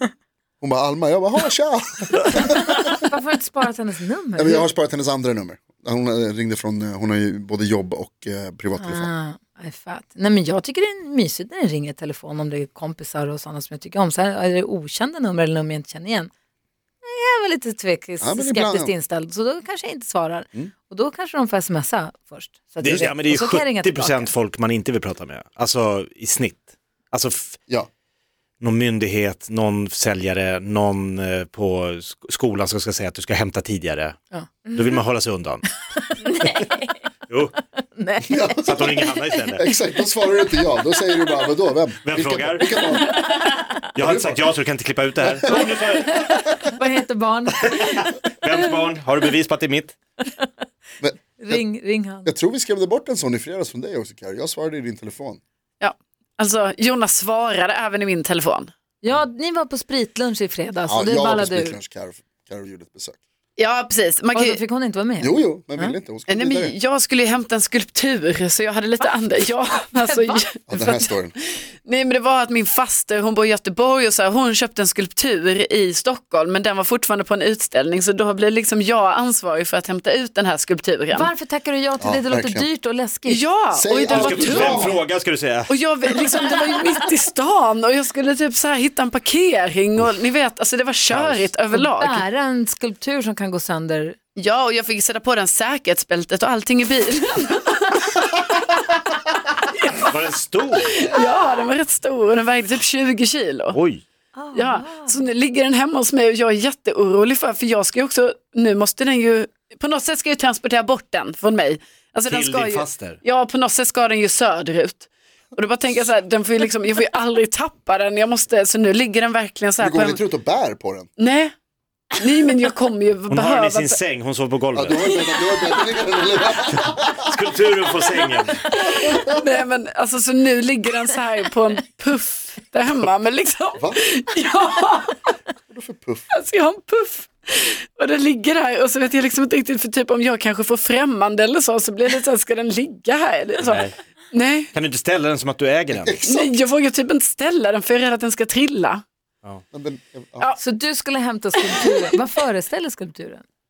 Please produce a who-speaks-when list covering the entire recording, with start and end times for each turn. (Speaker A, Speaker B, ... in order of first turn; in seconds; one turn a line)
Speaker A: 0.6-2.9
Speaker B: 3.0-4.7
Speaker A: 4.4-9.1
Speaker B: 8.8-16.3
Speaker B: 17.0-24.3
Speaker A: 18.2-18.9
Speaker C: 22.8-27.6
Speaker A: 22.9-23.1
Speaker C: 28.6-34.2
Speaker B: 34.3-34.7
Speaker C: 34.7-35.6
Speaker B: 35.9-37.0
Speaker C: 37.3-37.5
Speaker B: 37.9-39.1
Speaker A: 38.3-38.9
Speaker C: 38.6-39.6
Speaker A: 39.6-43.2
Speaker C: 42.0-42.6
Speaker C: 43.9-46.2
Speaker A: 44.0-44.4
Speaker A: 45.2-46.4
Speaker B: 46.3-48.1
Speaker C: 47.6-49.9
Speaker A: 51.0-51.6
Speaker B: 51.4-52.3
Speaker A: 52.2-55.4
Speaker D: 55.8-58.7
Speaker B: 59.0-61.8
Speaker A: 60.9-63.2
Speaker D: 63.6-64.6
Speaker B: 64.3-65.9
Speaker A: 65.2-66.7
Speaker D: 66.3-71.0
Speaker A: 70.7-71.4
Speaker D: 71.8-81.3
Speaker B: 81.1-83.4
Speaker A: 82.0-82.7
Speaker D: 83.3-85.0
Speaker A: 83.7-85.0
Speaker C: 84.1-85.8
Speaker D: 85.7-92.2
Speaker C: 91.1-91.5
Speaker B: 91.7-94.2
Speaker D: 94.4-98.7
Speaker C: 100.0-100.9
Speaker D: 100.8-103.8
Speaker C: 103.7-104.0
Speaker B: 104.3-105.2
Speaker D: 104.5-120.2
Speaker C: 112.3-113.2
Speaker A: 119.8-121.1
Speaker D: 121.2-121.5
Speaker D: 122.1-124.0
Speaker C: 123.3-125.1
Speaker A: 124.8-127.3
Speaker D: 125.5-125.9
Speaker C: 126.7-128.6
Speaker D: 128.2-135.3
Speaker A: 129.0-129.3
Speaker A: 135.7-136.2
Speaker D: 136.3-144.7
Speaker C: 143.6-143.9
Speaker C: 144.7-146.3
Speaker D: 146.2-149.0
Speaker A: 149.7-150.5
Speaker B: 150.6-153.4
Speaker D: 151.6-152.1